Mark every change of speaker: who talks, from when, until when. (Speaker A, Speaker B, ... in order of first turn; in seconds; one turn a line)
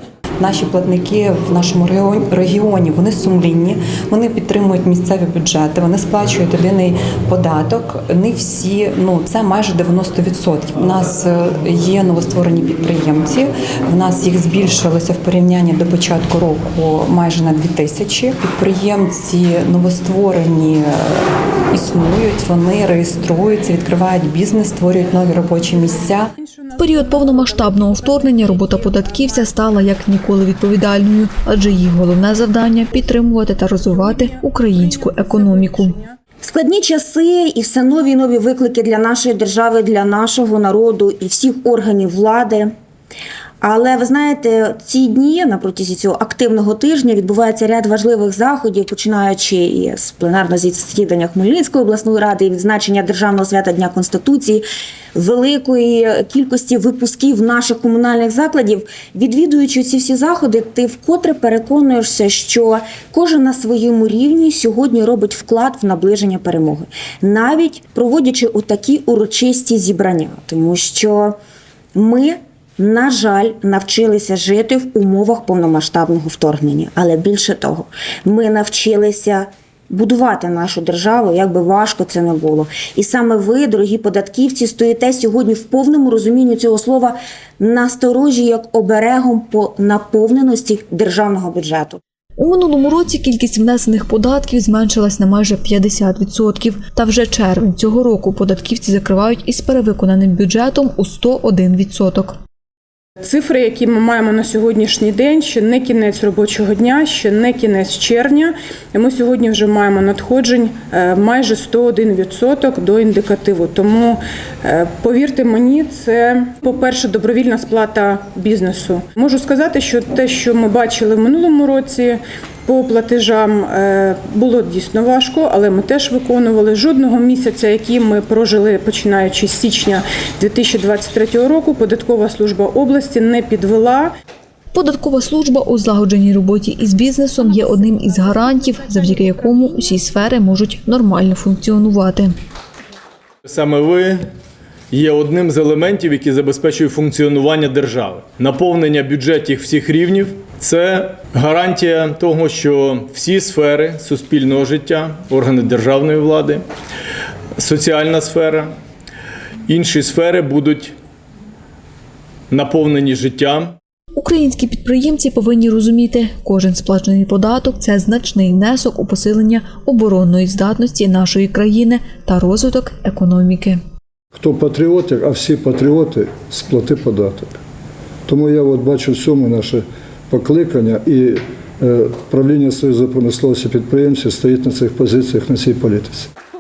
Speaker A: 0.4-26.3
Speaker B: 26.4-29.6
Speaker C: 26.8-36.0
Speaker B: 33.8-36.2
Speaker D: 36.4-42.7
Speaker D: 43.6-71.4
Speaker D: 72.0-92.0
Speaker C: 92.4-102.4
Speaker B: 103.2-134.1
Speaker C: 134.7-142.3
Speaker B: 138.0-138.4
Speaker E: 143.5-144.2
Speaker E: 144.9-156.6
Speaker E: 157.6-158.7
Speaker E: 159.7-160.9
Speaker E: 162.5-163.8
Speaker C: 164.2-173.8
Speaker F: 174.3-177.6
Speaker F: 178.3-186.3